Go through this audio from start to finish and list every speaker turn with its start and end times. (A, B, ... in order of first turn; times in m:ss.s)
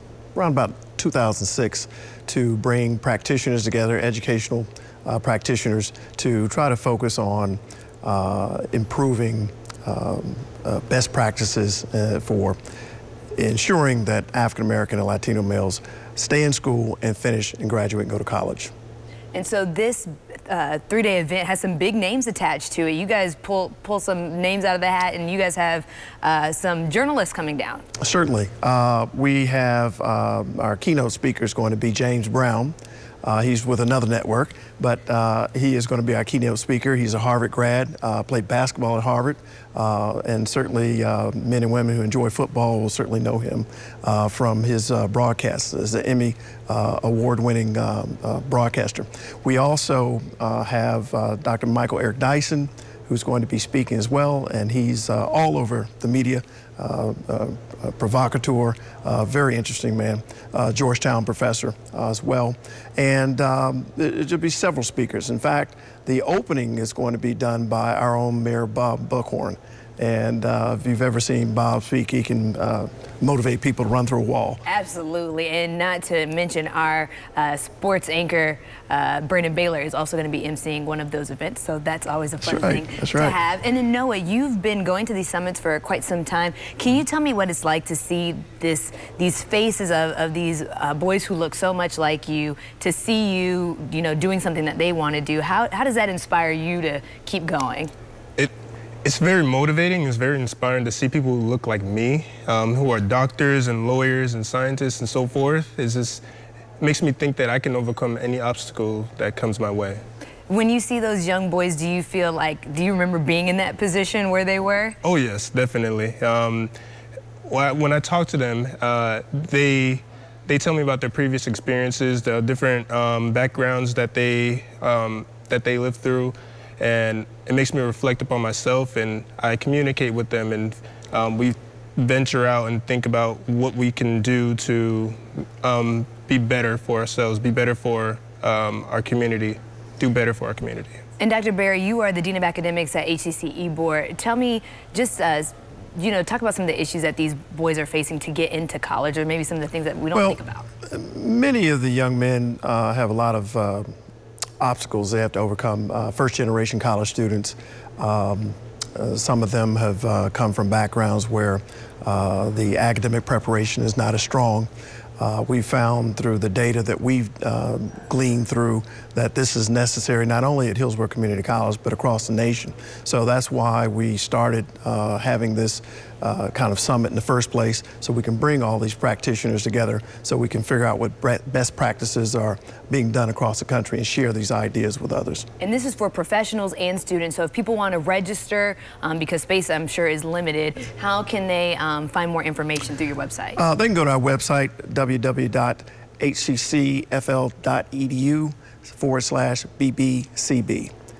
0:00.3-0:12.6 A
0:13.4-0:18.7 A
0:19.3-0:27.8 B
0:28.0-1:14.6 A
1:14.7-1:37.9 B
1:22.4-1:23.4 A
1:39.0-1:46.2 C
1:46.8-1:50.0 C
1:50.5-1:55.0 B
1:55.0-1:56.7 C
1:57.4-2:21.0 C
2:21.2-2:30.7 B
2:30.1-2:33.9 A
2:34.6-3:05.5 A
3:05.6-3:13.6 B
3:13.6-3:20.9 A